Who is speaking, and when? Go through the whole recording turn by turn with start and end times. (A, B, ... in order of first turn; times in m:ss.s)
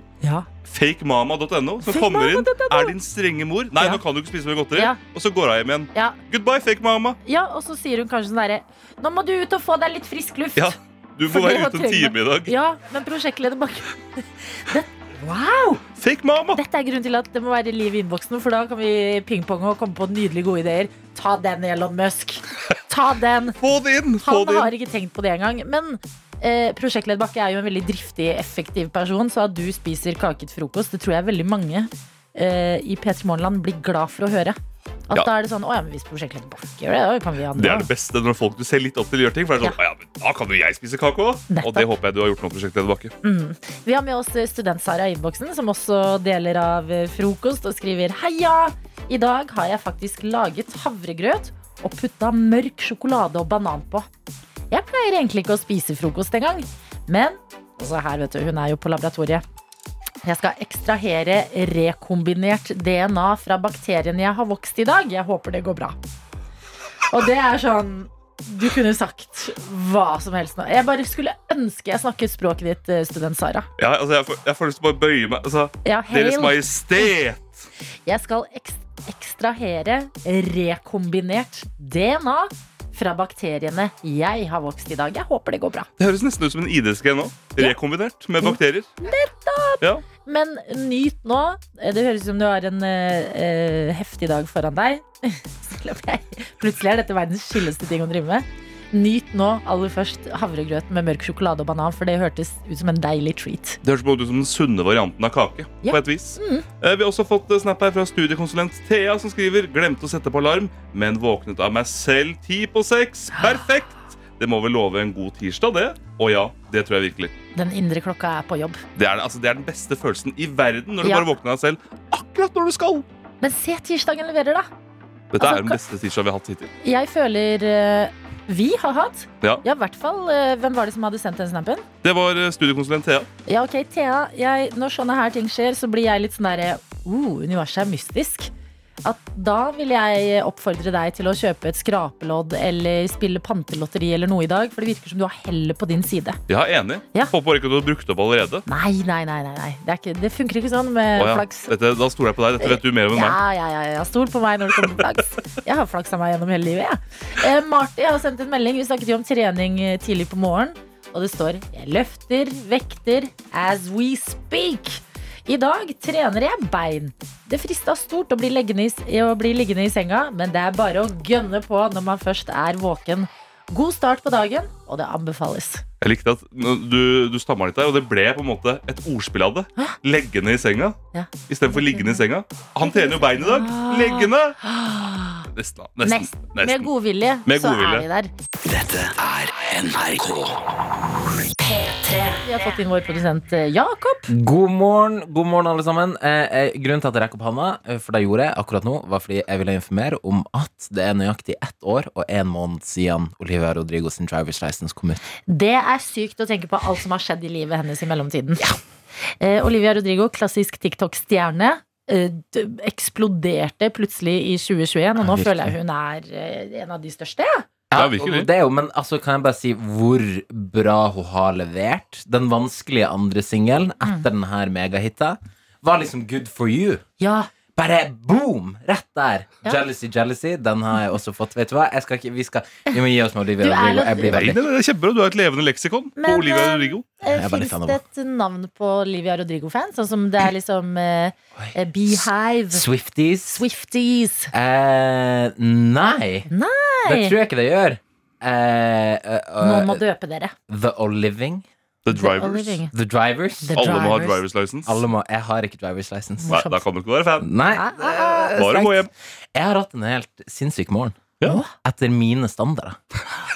0:00.2-0:00.5 A
0:00.6-0:07.2 B
0:01.8-0:02.9 A
0:03.8-0:04.0 A
0:07.2-0:10.7 A
0:10.6-0:12.5 B
0:11.3-0:15.8 A
0:16.0-0:16.6 B
0:16.5-0:23.6 A
0:23.6-0:24.7 B
0:24.2-0:34.6 A
0:35.1-0:37.9 A
0:37.6-0:43.1 B
0:41.5-0:41.9 A
0:43.2-0:54.1 A
0:54.7-0:59.4 A
1:00.2-1:06.0 A
1:07.1-1:13.7 A
1:13.8-1:17.7 B
1:15.8-1:17.1 A
1:18.0-1:25.9 A
1:26.0-1:28.9 B
1:28.4-1:43.8 A
1:43.8-1:57.3 B
1:45.8-1:46.6 A
1:57.5-1:58.8 A
1:59.0-2:03.0 B
2:01.0-2:01.3 A
2:03.4-2:04.7 A
2:05.3-2:06.7 B
2:05.4-2:05.8 A
2:06.8-2:11.8 A
2:12.0-2:13.3 B
2:13.5-2:18.5 A
2:19.0-2:26.4 A
2:26.5-2:28.6 B
2:28.6-2:31.7 A
2:31.2-2:33.4 B
2:32.6-2:55.8 A
2:56.0-3:01.0 B
3:01.1-3:02.2 A
3:01.5-3:04.6 B
3:02.8-3:05.5 A
3:05.5-3:06.9 B
3:06.0-3:08.3 A
3:07.4-3:08.0 B
3:08.6-3:10.6 C
3:11.7-3:12.3 C
3:12.4-3:14.3 A
3:14.3-3:25.2 D
3:25.5-3:28.7 A
3:29.4-3:37.6 A
3:35.2-3:35.7 D
3:37.9-3:47.0 D
3:37.9-3:38.5 B
3:47.2-3:47.5 A
3:47.8-3:54.6 D
3:53.6-3:54.4 A
3:54.3-3:57.0 B
3:56.2-4:02.8 A
3:57.3-3:58.0 D
4:01.6-4:03.6 D
4:03.5-4:04.5 A
4:04.5-4:06.5 D
4:06.5-4:07.3 A
4:07.0-4:10.0 D
4:09.6-4:10.5 A
4:10.7-4:11.6 D
4:12.0-4:12.8 B
4:12.1-4:12.9 A
4:12.9-4:14.0 D
4:13.6-4:14.4 A
4:13.7-4:15.0 B
4:14.8-4:16.6 D
4:16.4-4:16.8 A
4:16.5-4:17.5 B
4:17.4-4:21.2 D
4:17.7-4:18.6 A
4:18.5-4:19.1 B
4:21.4-4:21.7 A
4:21.7-4:23.0 D